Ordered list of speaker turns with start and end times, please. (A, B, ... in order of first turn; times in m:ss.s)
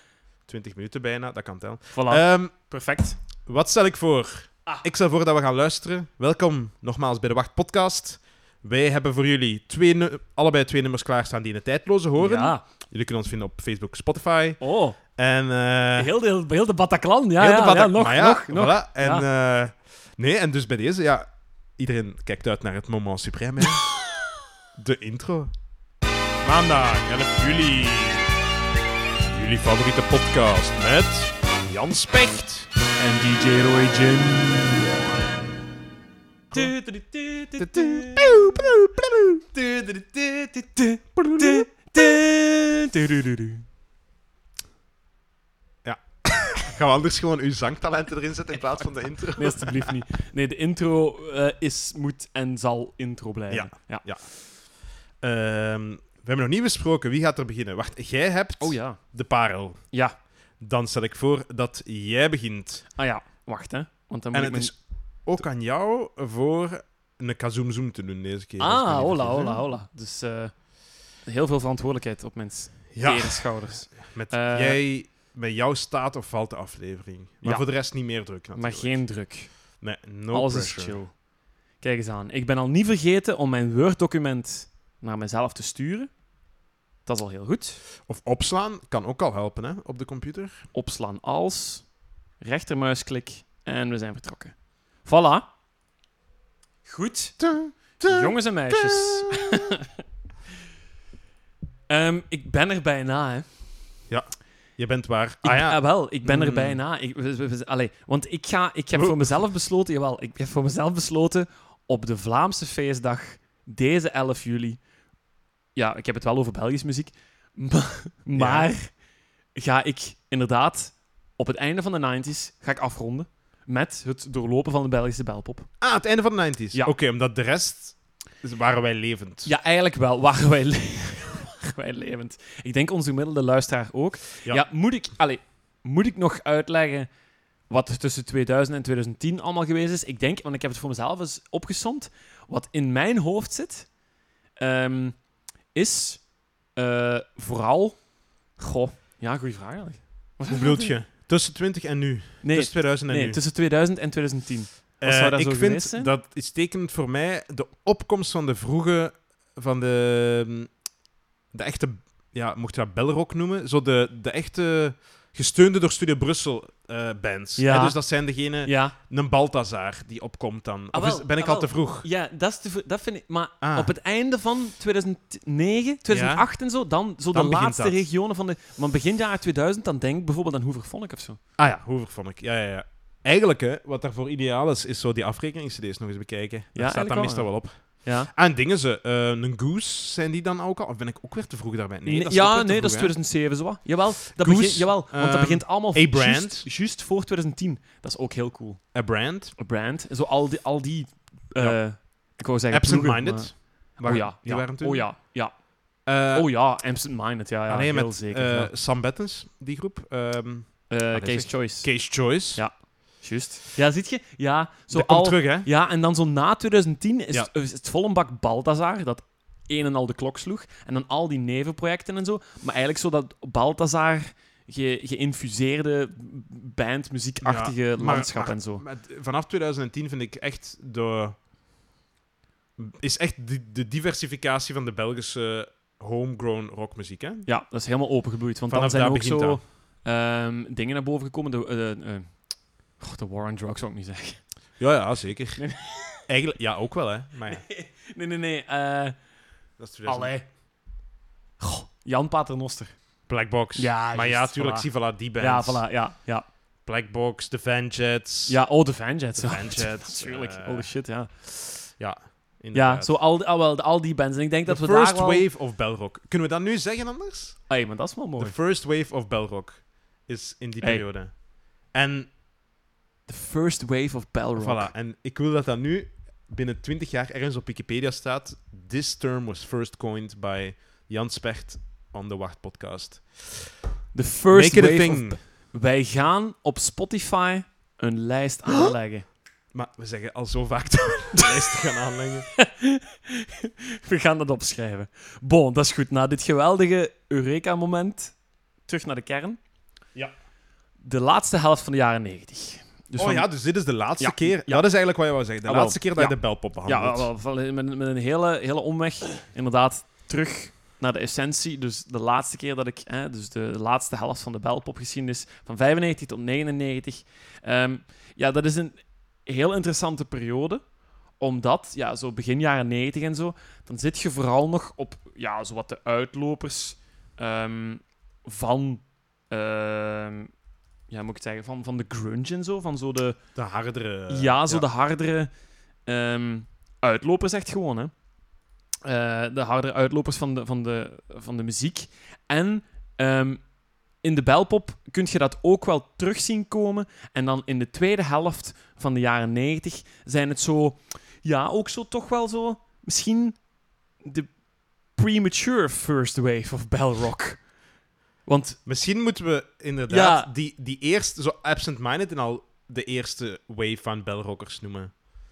0:00.4-0:02.7 A
0:01.9-0:03.2 B
0:03.4-0:16.1 A
0:12.2-0:12.6 B
0:14.6-0:15.0 B
0:16.0-0:19.3 B
0:17.4-0:23.9 A
0:24.8-0:25.5 A
0:26.4-0:28.3 A
0:29.3-0:32.7 A
0:33.0-0:34.9 B
0:36.5-0:38.4 B
0:37.6-0:41.7 A
0:40.8-0:43.6 B
0:45.8-0:49.9 A
0:49.4-0:54.1 B
0:53.5-0:59.9 A
0:58.6-0:59.1 B
0:59.9-1:00.2 B
1:00.6-1:02.9 A
1:03.0-1:04.7 B
1:04.3-1:09.6 A
1:08.6-1:14.8 B
1:12.9-1:21.0 A
1:17.4-1:21.2 B
1:21.8-1:26.1 B
1:27.0-1:27.8 B
1:28.0-1:30.7 A
1:30.7-1:35.5 B
1:36.8-1:37.4 B
1:37.4-1:39.5 A
1:38.0-1:39.9 B
1:41.9-1:43.5 B
1:44.1-1:46.8 A
1:45.4-1:54.8 B
1:49.0-1:49.3 A
1:55.8-1:58.9 B
1:58.4-1:58.7 A
1:59.6-2:05.7 B
2:05.8-2:09.5 A
2:09.4-2:17.1 B
2:17.7-2:24.0 B
2:24.6-2:30.9 B
2:30.5-2:33.4 A
2:32.4-2:36.1 B
2:35.0-2:40.8 A
2:41.5-2:52.1 A
2:47.6-2:49.0 B
2:50.9-3:01.4 B
2:53.6-2:53.9 A
2:56.1-2:56.5 A
2:57.3-2:58.0 A
3:01.6-3:13.2 A
3:06.8-3:08.3 B
3:12.0-3:19.0 B
3:14.3-3:16.7 A
3:18.9-3:19.6 A
3:19.6-3:28.7 B
3:21.6-3:25.2 A
3:26.0-3:26.5 A
3:27.7-3:32.6 A
3:30.9-3:48.8 B
3:34.9-3:35.7 A
3:47.4-3:51.4 A
3:52.8-3:57.5 A
3:57.5-4:04.5 B
3:58.7-3:59.6 A
4:04.8-4:07.6 A
4:05.6-4:06.2 B
4:07.5-4:09.2 B
4:09.8-4:10.4 A
4:10.0-4:10.5 B
4:11.6-4:13.0 B
4:13.3-4:15.9 A
4:13.8-4:16.5 B
4:16.8-4:18.6 A
4:18.5-4:22.0 B
4:19.3-4:21.0 A
4:22.0-4:23.2 A
4:22.7-4:25.5 B
4:24.7-4:27.7 A
4:27.7-4:28.6 B
4:28.4-4:32.3 A
4:33.3-4:34.9 B
4:34.6-4:43.7 A
4:44.1-4:49.3 B
4:44.5-4:45.4 A
4:49.7-4:52.5 A
4:52.6-4:59.6 B
5:01.0-5:03.5 B
5:03.2-5:07.3 A
5:04.2-5:04.9 B
5:05.6-5:20.9 B
5:21.4-5:30.5 B
5:31.1-5:33.4 B
5:33.6-5:34.9 A
5:34.3-5:35.5 B
5:36.1-5:38.1 B
5:39.0-5:43.6 B
5:44.2-5:53.6 B
5:54.2-5:54.6 B
5:55.1-5:57.7 B
5:58.4-5:58.8 B
5:58.8-6:05.1 A
6:00.1-6:00.5 B